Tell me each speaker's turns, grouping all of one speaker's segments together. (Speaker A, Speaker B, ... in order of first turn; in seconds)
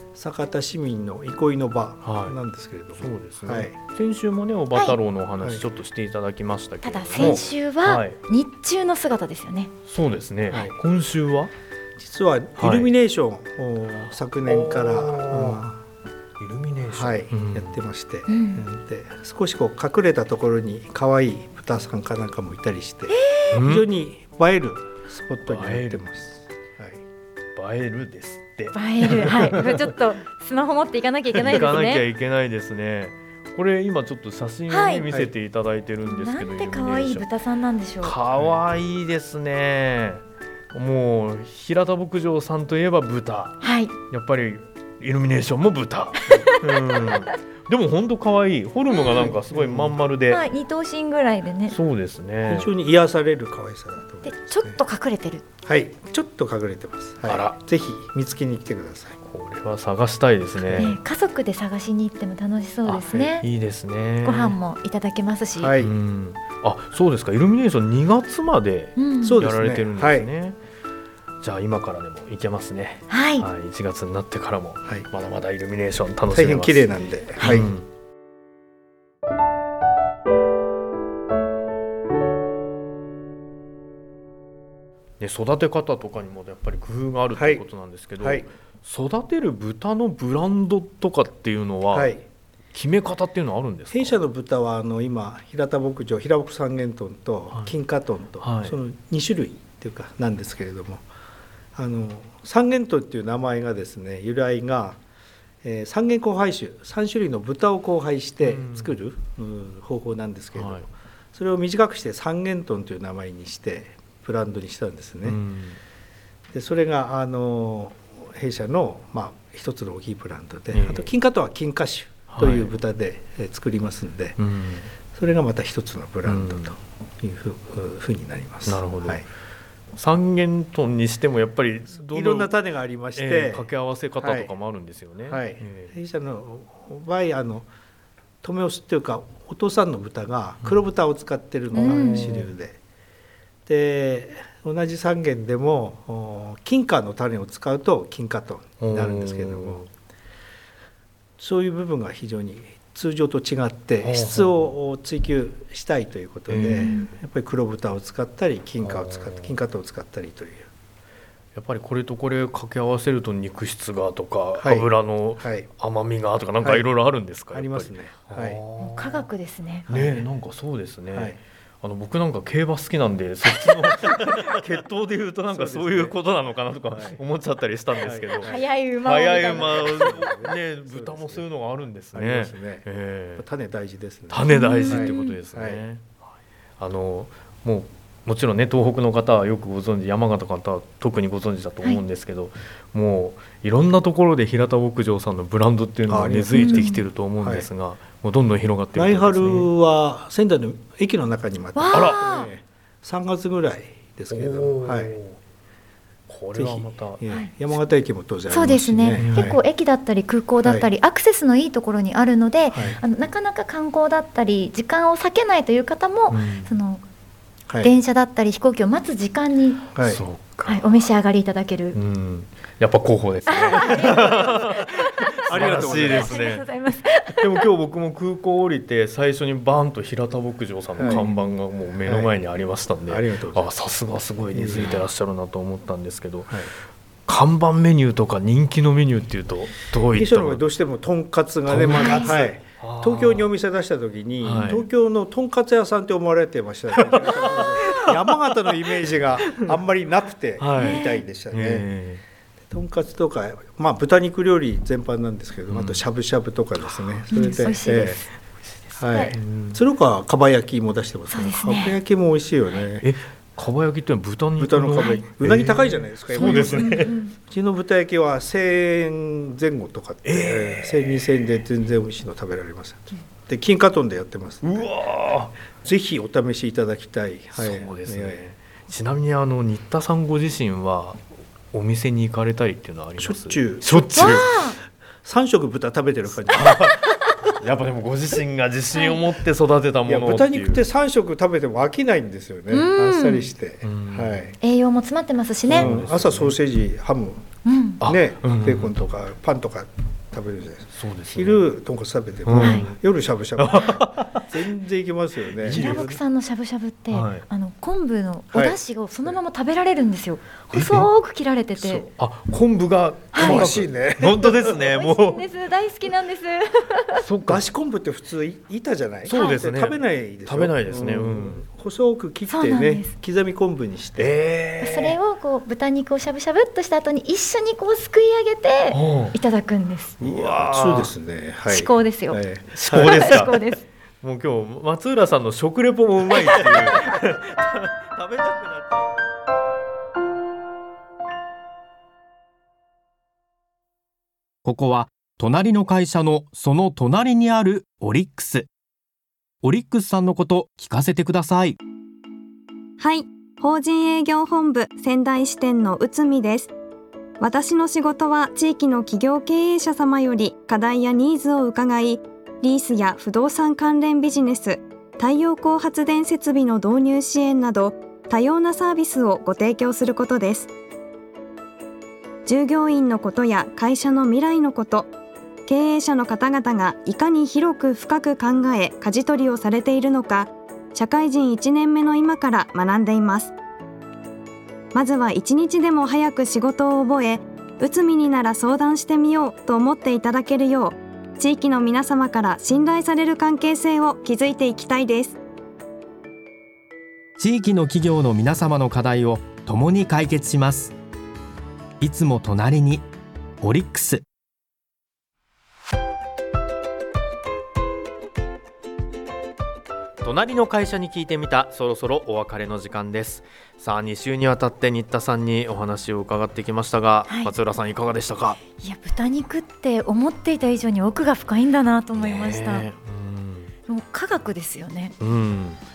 Speaker A: 0.1-3.7, 10.5-10.8, 12.0-15.8, 16.9-27.0, 49.5-50.0, 52.5-54.8, 55.6-59.2, 65.6-65.9, 69.2-70.3, 76.3-77.7, 87.3-87.6, 88.2-88.5, 91.9-92.2, 93.9-101.0, 101.7-105.0, 105.6-115.4, 116.5-124.4, 125.0-129.2, 132.1-133.7, 134.2-134.5, 135.3-137.7, 138.4-142.8, 143.7-149.8, 151.4-160.7, 164.6-164.9, 165.4-165.7, 166.6-166.9, 167.5-168.6, 169.9-170.2, 171.1-171.4, 175.5-176.2, 176.9-177.2, 178.0-178.6, 179.4-181.4, 182.1-182.8, 183.4-185.8, 196.1-197.7, 198.9-205.1, 206.5-209.6, 219.9-220.2, 224.0-224.5, 225.5-226.4, 231.0-231.3, 232.0-232.3, 233.1-233.7, 234.5-235.0, 240.1-251.8, 252.7-258.2, 259.0-263.1, 264.6-274.8, 275.8-278.5, 283.2-284.6, 285.2-286.9, 290.1-294.6, 295.7-297.5, 298.0-306.1, 308.5-309.4, 311.8-312.1, 313.4-314.8, 317.4-324.3, 330.2-333.4
Speaker B: 2.0-2.4, 3.0-8.2, 9.9-11.5, 12.6-12.9, 14.4-15.6, 16.4-17.8, 23.5-23.9, 25.4-26.1, 27.6-29.9, 31.3-37.2, 38.0-50.4, 51.7-52.7, 57.2-57.6, 59.2-61.0, 62.9-64.6, 65.8-70.6, 71.4-77.8, 85.2-92.1, 92.7-94.2, 98.4-98.8, 108.4-109.0, 110.5-110.9, 115.2-115.8, 120.7-121.1, 122.3-122.7, 124.4-124.9, 126.2-126.8, 128.7-129.3, 129.9-132.5, 133.1-135.9, 141.8-142.5, 148.8-149.9, 154.0-154.5, 156.5-157.1, 158.8-159.6, 161.5-169.2, 169.9-183.4, 184.3-186.1, 186.8-199.7, 201.9-202.2, 204.3-205.4, 206.3-207.2, 209.2-209.6, 216.3-216.7, 220.0-220.8, 221.9-226.7, 227.4-236.7, 237.3-240.6, 241.7-243.5, 244.4-244.8, 247.0-248.2, 249.4-249.7, 250.6-252.2, 255.7-256.0, 259.4-259.8, 263.0-267.2, 270.2-271.6, 274.6-275.5, 277.5-284.6, 286.5-290.8, 293.8-294.4, 295.7-296.6, 298.0-298.9, 300.9-301.6, 302.4-303.0, 303.6-304.4, 305.6-306.2, 307.1-307.4, 310.7-311.1, 312.1-315.4, 317.1-317.6, 319.2-321.6, 324.2-325.2, 328.9-329.4, 330.2-331.1, 332.7-333.6, 334.2-339.1, 410.2-418.6, 422.2-423.7, 425.2-425.8
Speaker C: 6.8-9.7, 18.3-18.6, 23.1-23.6, 28.7-32.0, 34.7-35.0, 36.1-38.1, 43.6-43.9, 46.2-47.3, 48.9-49.3, 50.3-51.8, 54.2-55.4, 60.8-63.5, 64.2-65.7, 69.0-69.4, 73.1-73.5, 141.7-142.2, 156.7-157.1, 168.8-169.9, 178.4-180.2, 184.5-185.4, 196.5-197.0, 201.7-202.5, 208.5-217.0, 217.8-219.9, 220.7-222.0, 223.5-227.6, 241.9-242.3, 250.8-251.2, 257.3-258.2, 258.9-259.3, 261.3-262.0, 265.0-265.2, 266.4-267.3, 284.1-284.8, 292.7-293.5, 294.6-295.9, 297.6-298.0, 302.6-302.8, 305.7-312.1, 313.3-313.6, 314.8-317.2, 319.3-319.6, 322.5-323.1, 324.8-330.2, 331.7-332.4, 332.9-333.8, 417.3-417.5, 418.8-422.9, 423.9-425.1
Speaker D: 344.6-348.7, 349.6-351.8, 397.4-400.9, 402.0-403.1, 403.6-404.2
Speaker E: 353.0-356.7, 357.4-370.7, 372.4-375.1, 375.7-383.5, 384.9-395.4